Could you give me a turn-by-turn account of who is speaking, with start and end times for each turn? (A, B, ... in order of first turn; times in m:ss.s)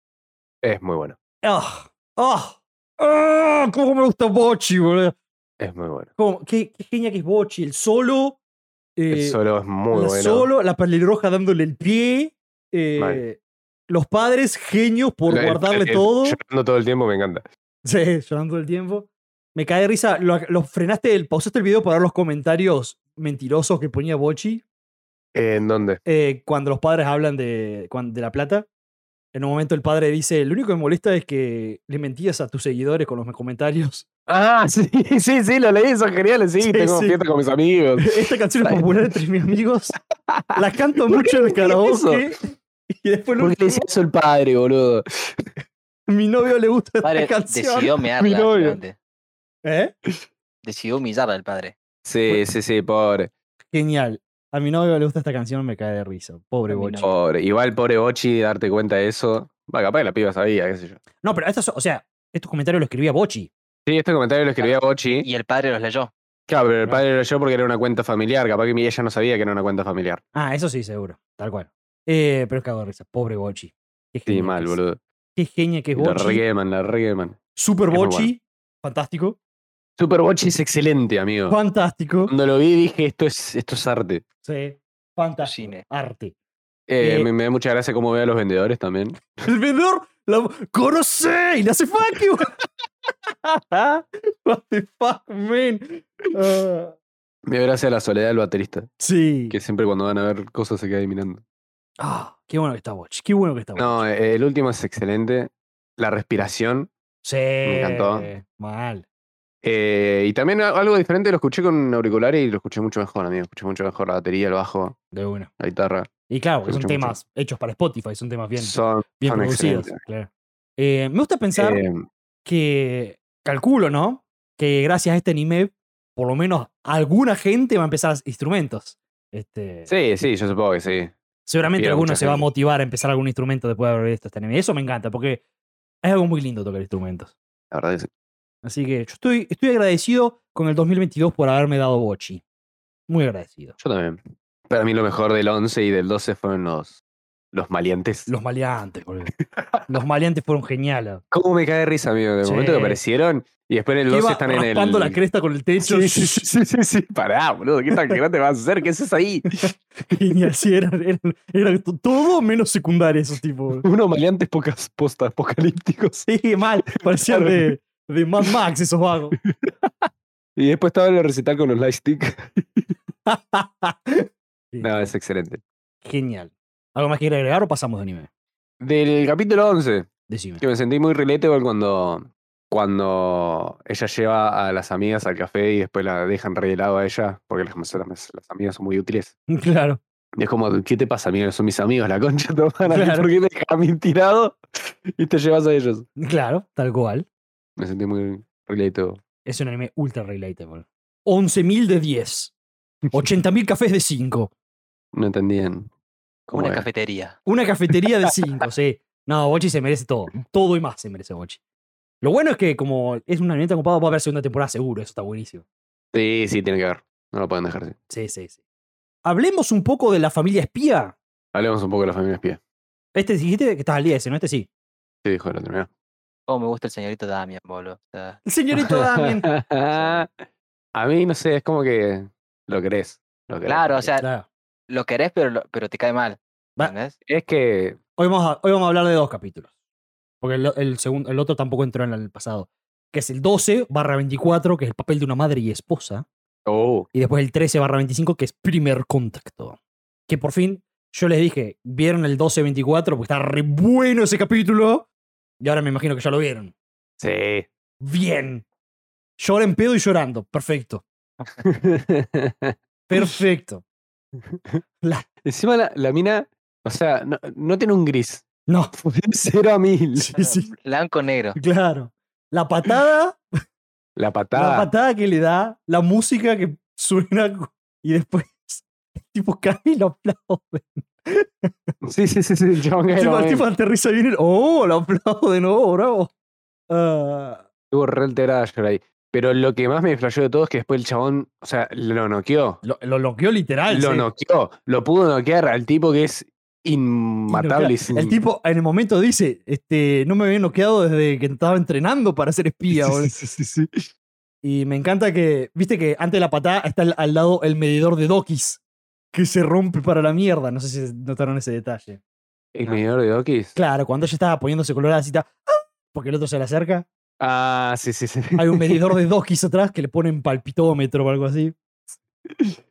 0:00.6-0:01.2 A
0:01.4-0:05.2 B
0:05.6-0:06.1 A
0:06.2-0:08.4 B
0:09.0-0:09.4 B
0:09.1-0:10.5 A
0:09.9-0:16.4 B
0:13.0-0:13.2 A
0:15.3-0:17.4 A
0:17.8-0:24.6 B
0:25.3-0:26.0 A
0:26.0-0:28.7 B
0:29.3-0:34.0 B
0:34.3-0:38.9 A
0:36.6-0:37.2 B
0:38.0-0:40.0 B
0:40.3-0:42.2 A
0:40.5-0:43.8 B
0:43.4-0:45.4 A
0:46.1-0:48.8 B
0:47.0-0:49.0 C
0:48.2-0:48.6 A
0:49.6-0:49.9 B
0:50.6-0:51.8 C
0:52.0-0:53.3 A
0:53.7-0:57.1 B
0:56.7-0:57.1 C
0:57.0-1:01.0 A
1:01.2-1:03.5 B
1:03.8-1:05.3 A
1:04.6-1:06.1 C
1:06.5-1:10.2 A
1:10.3-1:14.8 B
1:14.3-1:15.0 A
1:15.3-1:16.4 B
1:16.0-1:17.4 A
1:17.5-1:19.4 B
1:17.9-1:18.3 A
1:20.0-1:21.6 A
1:21.5-1:22.3 B
1:22.3-1:24.2 A
1:24.4-1:26.3 B
1:25.4-1:25.8 C
1:26.9-1:29.2 A
1:27.0-1:27.3 B
1:29.4-1:32.5 B
1:33.3-1:37.0 B
1:37.4-1:38.9 A
1:39.0-1:39.6 B
1:39.5-1:41.4 A
1:42.0-1:44.0 B
1:43.8-1:46.9 A
1:47.2-1:49.0 B
1:47.6-1:48.3 A
1:49.6-1:55.0 A
1:55.1-1:55.5 B
1:55.6-1:56.1 A
1:56.3-2:01.8 B
1:56.6-1:57.2 A
1:58.6-2:00.0 A
2:01.6-2:02.0 A
2:02.4-2:09.9 B
2:09.9-2:11.1 A
2:11.4-2:15.4 B
2:11.7-2:12.5 A
2:16.0-2:17.3 B
2:17.7-2:18.1 A
2:18.6-2:22.4 B
2:23.1-2:23.8 B
2:23.8-2:27.0 A
2:27.5-2:28.3 A
2:28.3-2:29.3 B
2:29.5-2:29.8 A
2:29.9-2:31.2 B
2:31.3-2:35.2 A
2:32.4-2:33.0 B
2:34.1-2:36.5 B
2:35.8-2:39.6 A
2:37.9-2:38.2 B
2:39.5-2:43.8 B
2:43.8-2:46.3 A
2:46.2-2:49.4 B
2:47.0-2:47.7 A
2:49.4-2:52.9 A
2:53.2-2:55.1 B
2:54.8-2:55.6 A
2:56.0-2:58.3 B
2:58.8-3:00.1 A
3:00.3-3:00.6 B
3:00.6-3:09.3 A
3:09.5-3:10.0 B
3:10.4-3:16.1 A
3:12.8-3:13.3 B
3:16.2-3:17.2 B
3:17.8-3:19.2 A
3:19.4-3:22.5 B
3:23.1-3:24.5 B
3:25.1-3:25.9 A
3:26.5-3:26.8 A
3:26.5-3:27.4 C
3:27.4-3:31.6 B
3:32.2-3:35.6 B
3:36.1-3:38.0 A
3:38.1-3:38.6 B
3:39.2-3:41.2 B
3:41.5-3:42.6 A
3:43.1-3:44.7 B
3:45.2-3:45.9 A
3:46.5-3:48.4 C
3:48.4-3:49.5 B
3:48.9-3:54.1 A
3:49.9-3:50.2 C
3:53.6-3:54.2 C
3:54.2-3:54.4 B
3:54.9-3:57.2 C
3:57.2-3:58.0 A
3:58.2-3:59.7 B
4:00.4-4:06.2 B
4:06.6-4:07.1 A
4:07.1-4:15.1 B
4:15.6-4:16.7 B
4:17.2-4:17.7 A
4:18.0-4:18.6 B
4:19.4-4:21.0 B
4:21.6-4:23.2 A
4:23.1-4:23.8 B
4:24.5-4:24.8 A
4:25.4-4:28.4 A
4:28.7-4:28.9 B
4:29.0-4:30.3 A
4:30.2-4:30.7 B
4:30.4-4:31.6 C
4:31.6-4:33.4 B
4:34.2-4:34.9 A
4:34.5-4:41.9 B
4:42.0-4:43.6 A
4:43.2-4:46.3 B
4:46.9-4:47.6 B
4:47.9-4:52.8 A
4:52.8-4:54.3 B
4:53.9-4:58.4 A
4:57.5-5:03.3 B
5:02.9-5:04.0 A
5:04.6-5:08.8 B
5:09.3-5:12.2 B
5:12.7-5:13.8 A
5:13.8-5:17.0 B
5:17.4-5:19.2 A
5:18.6-5:21.8 B